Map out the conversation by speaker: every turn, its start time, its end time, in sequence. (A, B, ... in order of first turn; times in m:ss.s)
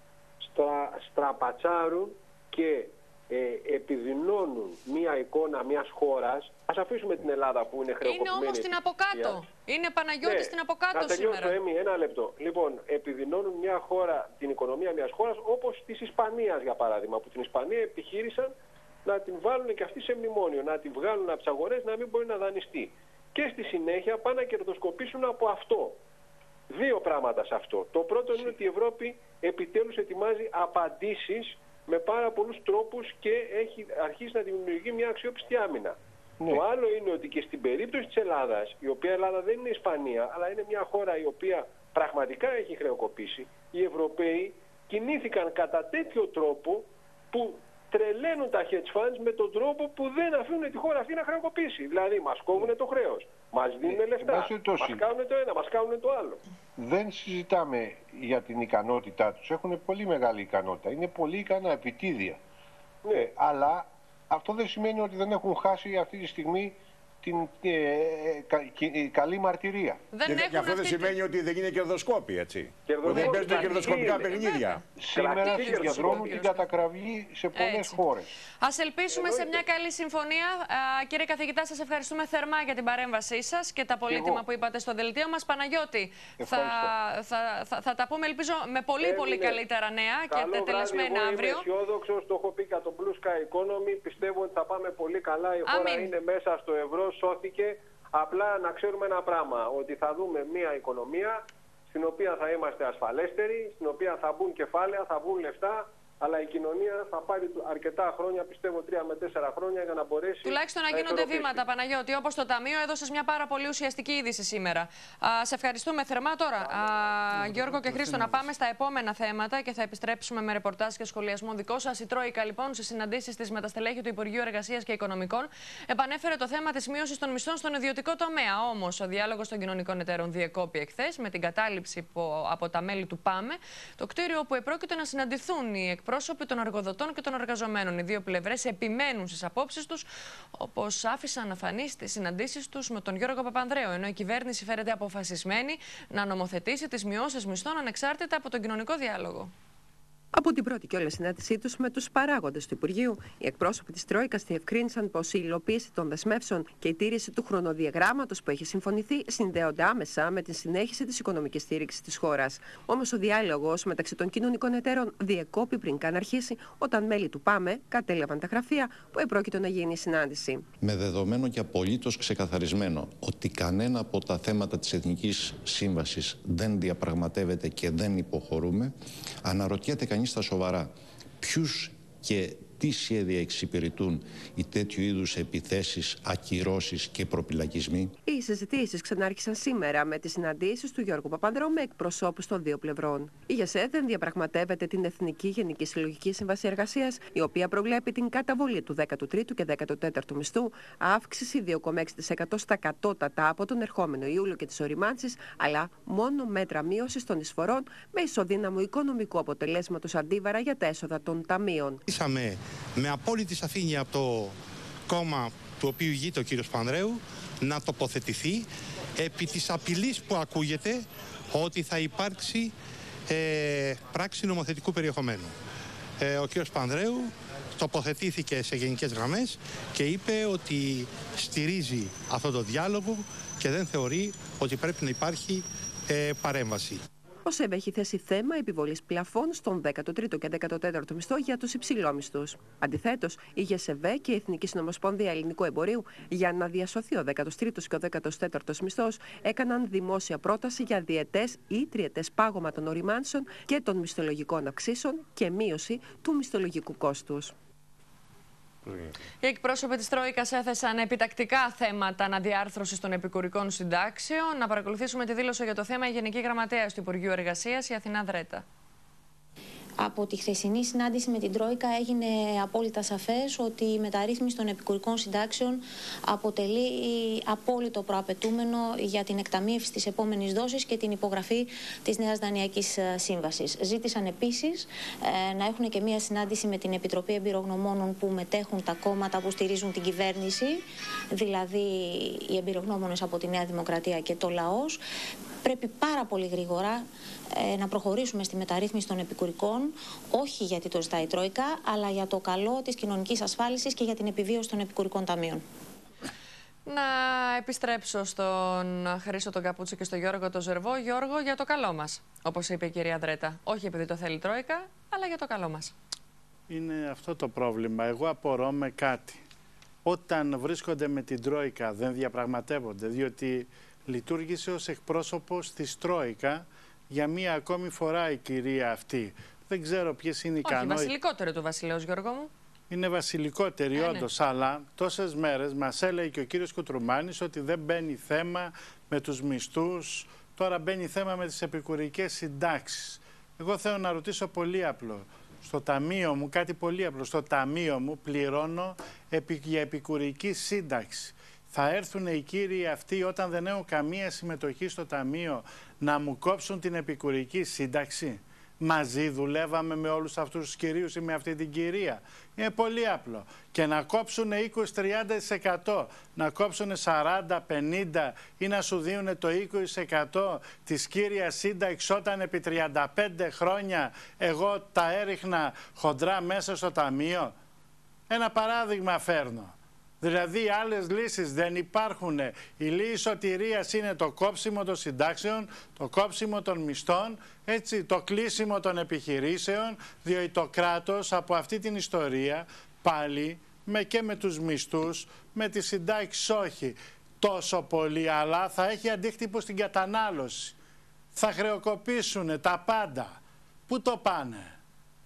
0:00.4-0:09.4 A
0:08.0-0:11.6 B
0:10.2-0:18.5 A
0:19.1-0:26.0 A
0:26.7-0:36.0 A
0:36.5-0:56.4 A
0:53.9-0:55.0 C
0:56.8-1:02.4 C
1:03.1-1:10.0 C
1:10.1-1:11.2 B
1:10.3-1:14.8 D
1:12.9-1:14.4 A
1:13.1-1:16.6 B
1:15.0-1:18.3 C
1:15.2-1:16.4 A
1:17.6-1:18.0 B
1:18.6-1:31.7 B
1:19.1-1:19.6 A
1:24.1-1:24.4 A
1:26.4-1:26.9 C
1:29.0-1:29.6 A
1:30.3-1:51.6 A
1:35.7-1:36.1 B
1:50.4-2:29.5 B
1:56.6-1:57.1 A
1:57.3-1:58.4 E
2:30.3-2:50.7 F
2:50.8-3:08.1 G
3:08.2-3:32.0 F
3:32.1-3:34.6 H
3:35.1-3:38.7 H
3:39.2-3:42.7 H
3:43.3-3:45.6 H
3:46.2-3:57.0 H
3:57.5-4:17.5 F
4:18.8-4:19.1 D
4:19.4-4:28.6 B
4:30.0-4:50.8 I
4:51.4-4:55.0 I
4:55.6-5:05.6 I
5:06.9-5:15.9 B
5:16.7-5:19.4 E
5:20.0-5:31.1 E
5:30.6-5:32.5 B
5:32.9-6:17.5 E
5:34.0-5:34.3 B
6:18.3-6:40.8 E
6:41.3-6:44.7 E